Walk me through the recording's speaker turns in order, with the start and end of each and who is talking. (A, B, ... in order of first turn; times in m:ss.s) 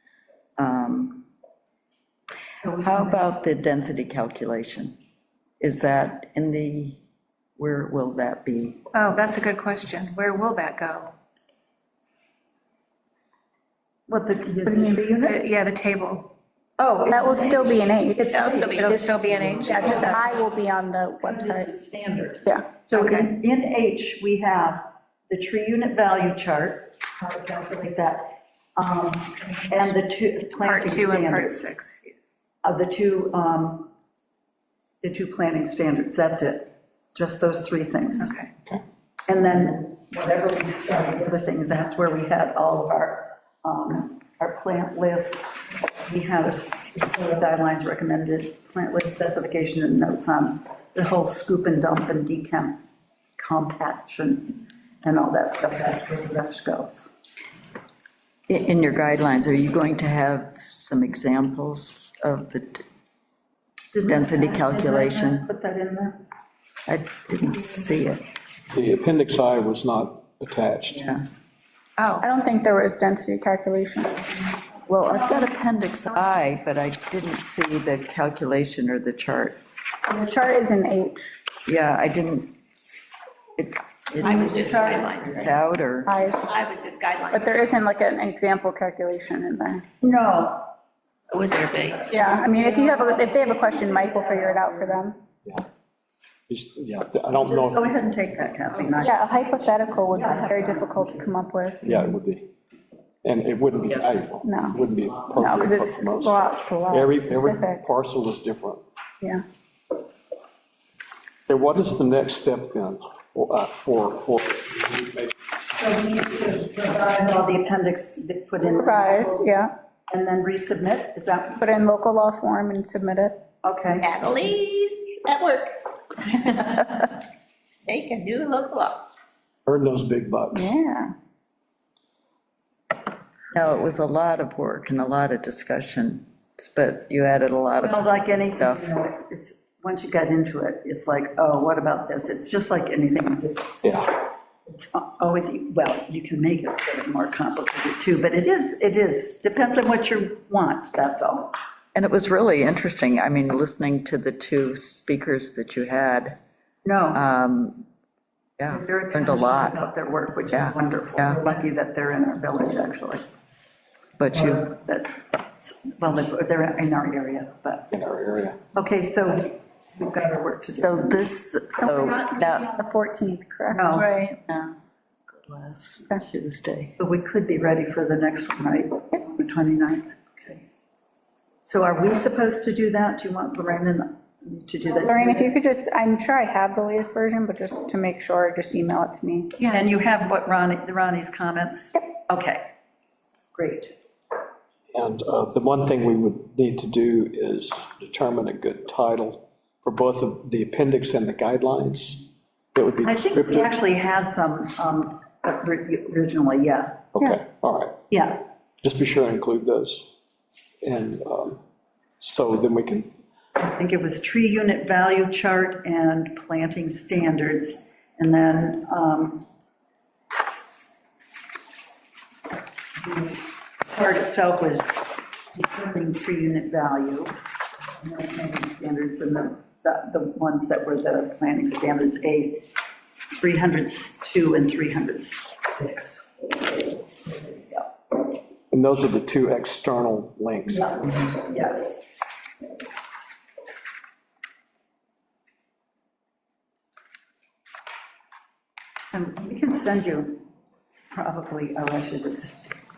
0:00.6-0:01.2 A
0:02.5-0:03.2 B
0:02.8-0:04.9 A
0:05.6-0:07.0 A
0:07.6-0:08.8 A
0:08.9-0:11.1 C
0:14.1-0:15.4 B
0:14.6-0:15.0 D
0:15.1-0:16.3 C
0:16.8-0:20.4 B
0:17.1-0:19.0 D
0:18.3-0:20.2 C
0:19.6-0:21.7 D
0:21.2-0:31.7 B
0:22.4-0:22.7 D
0:22.9-0:23.3 C
0:30.6-0:32.2 C
0:32.6-0:33.9 B
0:35.0-0:38.3 B
0:38.2-0:38.5 C
0:39.2-0:52.8 B
0:53.4-0:57.1 B
0:58.5-1:02.8 A
1:03.9-1:06.2 B
1:04.1-1:05.5 A
1:06.9-1:08.2 A
1:08.7-1:11.0 E
1:10.9-1:11.2 A
1:12.0-1:12.2 C
1:12.2-1:14.4 D
1:14.9-1:19.6 A
1:20.1-1:21.4 D
1:21.6-1:26.1 A
1:24.2-1:25.4 B
1:24.2-1:25.5 F
1:26.0-1:26.6 D
1:26.4-1:27.8 F
1:27.3-1:29.8 D
1:30.0-1:30.7 B
1:31.3-1:32.5 F
1:31.8-1:35.0 B
1:32.1-1:35.2 D
1:36.5-1:37.9 E
1:37.3-1:41.3 B
1:39.0-1:42.0 D
1:41.8-1:42.5 E
1:43.2-1:48.8 E
1:44.4-1:47.8 D
1:51.5-1:55.3 E
1:55.7-1:59.5 B
1:58.6-1:59.7 D
2:00.1-2:01.6 B
2:01.6-2:03.4 D
2:03.6-2:04.1 B
2:04.0-2:07.0 F
2:07.8-2:09.0 F
2:09.6-2:10.7 E
2:10.5-2:11.1 D
2:13.5-2:18.8 A
2:17.8-2:24.0 B
2:23.8-2:24.2 E
2:24.6-2:31.5 B
2:31.9-2:36.4 A
2:36.8-2:37.2 B
2:37.1-2:37.8 A
2:38.6-2:39.8 A
2:38.7-2:43.2 B
2:40.5-2:41.5 A
2:44.2-2:44.7 A
2:44.3-2:47.9 B
2:47.9-2:48.6 E
2:48.7-2:51.2 B
2:50.7-2:52.7 A
2:51.8-2:54.0 D
2:53.7-2:54.3 B
2:54.0-2:54.4 C
2:54.5-2:54.8 A
2:55.3-2:57.0 A
2:57.0-3:00.6 B
3:01.6-3:05.5 B
3:04.9-3:09.6 D
3:09.7-3:12.6 B
3:13.5-3:13.9 B
3:14.9-3:23.7 E
3:23.0-3:27.1 B
3:27.2-3:28.0 E
3:28.1-3:28.4 B
3:28.8-3:30.1 E
3:30.8-3:31.6 E
3:32.2-3:33.1 E
3:33.6-3:39.4 B
3:43.0-3:47.4 B
3:48.0-3:52.7 B
3:53.4-3:57.9 B
3:58.7-4:01.2 E
4:00.7-4:02.1 B
4:09.1-4:10.4 B
4:11.1-4:12.7 B